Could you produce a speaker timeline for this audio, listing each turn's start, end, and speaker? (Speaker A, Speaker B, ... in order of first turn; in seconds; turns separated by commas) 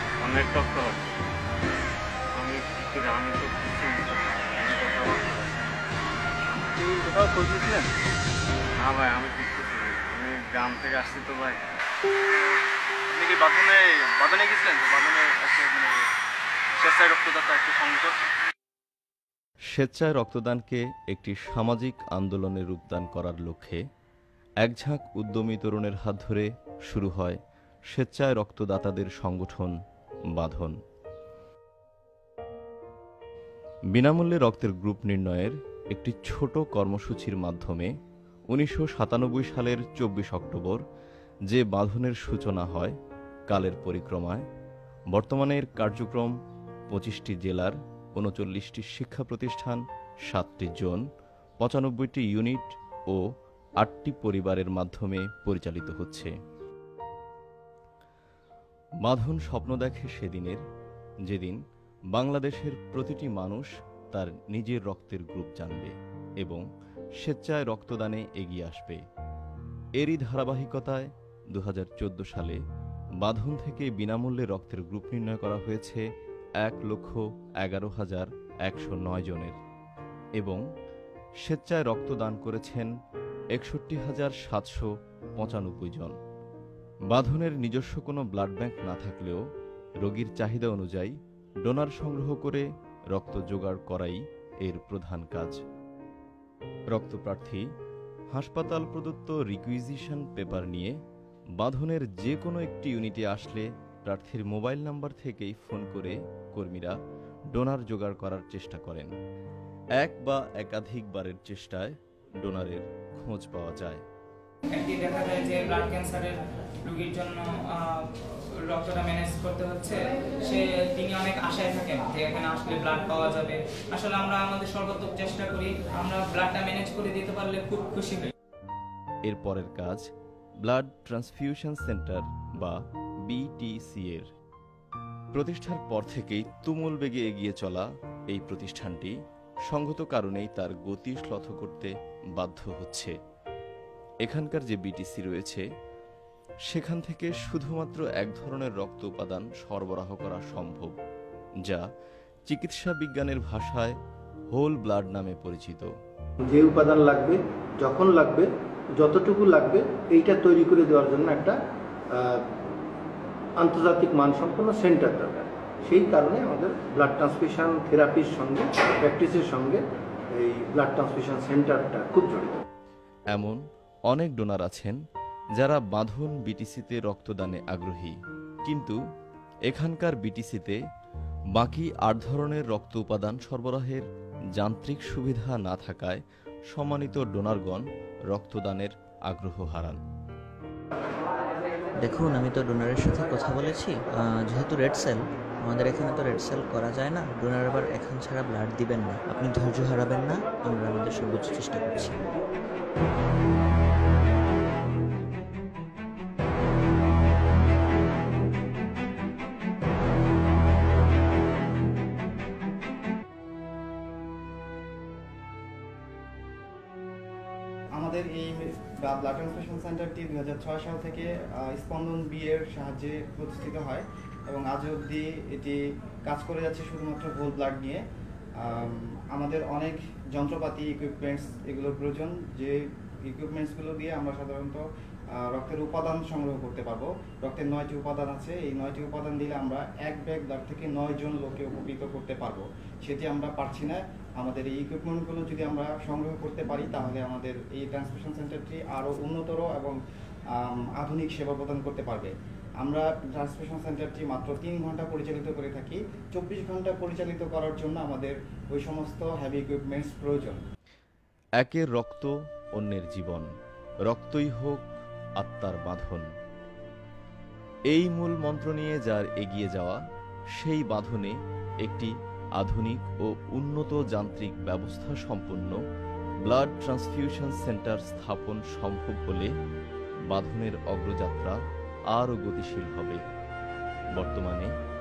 Speaker A: 0.2-1.2, Speaker A: 2.4-5.8, Speaker B: 6.8-7.9, Speaker A: 8.8-11.6, Speaker B: 13.1-16.1, Speaker B: 16.8-18.2, Speaker C: 19.7-23.8, Speaker C: 24.6-27.4, Speaker C: 27.9-29.8, Speaker C: 30.3-30.8, Speaker C: 33.9-37.9, Speaker C: 38.5-40.8, Speaker C: 41.5-43.0, Speaker C: 43.5-44.4, Speaker C: 45.1-46.3, Speaker C: 46.9-51.0, Speaker C: 51.6-53.2, Speaker C: 53.8-56.3, Speaker C: 59.0-60.6, Speaker C: 61.3-61.6, Speaker C: 62.1-66.7, Speaker C: 67.2-69.0, Speaker C: 70.0-72.6, Speaker C: 73.2-76.0, Speaker C: 76.6-79.6, Speaker C: 80.4-80.6, Speaker C: 81.4-82.9, Speaker C: 83.5-86.2, Speaker C: 87.1-89.4, Speaker C: 90.0-95.6, Speaker C: 96.9-97.7, Speaker C: 98.3-101.0, Speaker C: 101.6-107.0, Speaker C: 107.5-109.1, Speaker C: 110.0-114.0, Speaker D: 114.7-128.3, Speaker C: 129.3-130.1, Speaker C: 130.6-134.3, Speaker C: 135.3-139.2, Speaker C: 139.7-143.1, Speaker C: 144.2-145.7, Speaker C: 146.7-151.0, Speaker C: 152.5-153.9, Speaker C: 154.5-155.9, Speaker E: 156.4-161.6, Speaker E: 162.1-162.4, Speaker E: 163.6-169.8, Speaker E: 170.3-172.6, Speaker C: 173.3-175.0, Speaker C: 175.6-179.0, Speaker C: 179.7-180.8, Speaker C: 181.5-184.0, Speaker C: 184.6-190.0, Speaker F: 192.0-202.2, Speaker G: 218.0-228.0, Speaker G: 228.6-234.8, Speaker G: 235.4-250.0, Speaker G: 250.6-260.6, Speaker C: 261.6-263.5, Speaker C: 264.1-266.3, Speaker C: 267.9-270.0, Speaker C: 270.6-275.8, Speaker C: 276.5-279.5, Speaker C: 280.3-281.6, Speaker C: 282.1-283.2, Speaker C: 284.2-284.7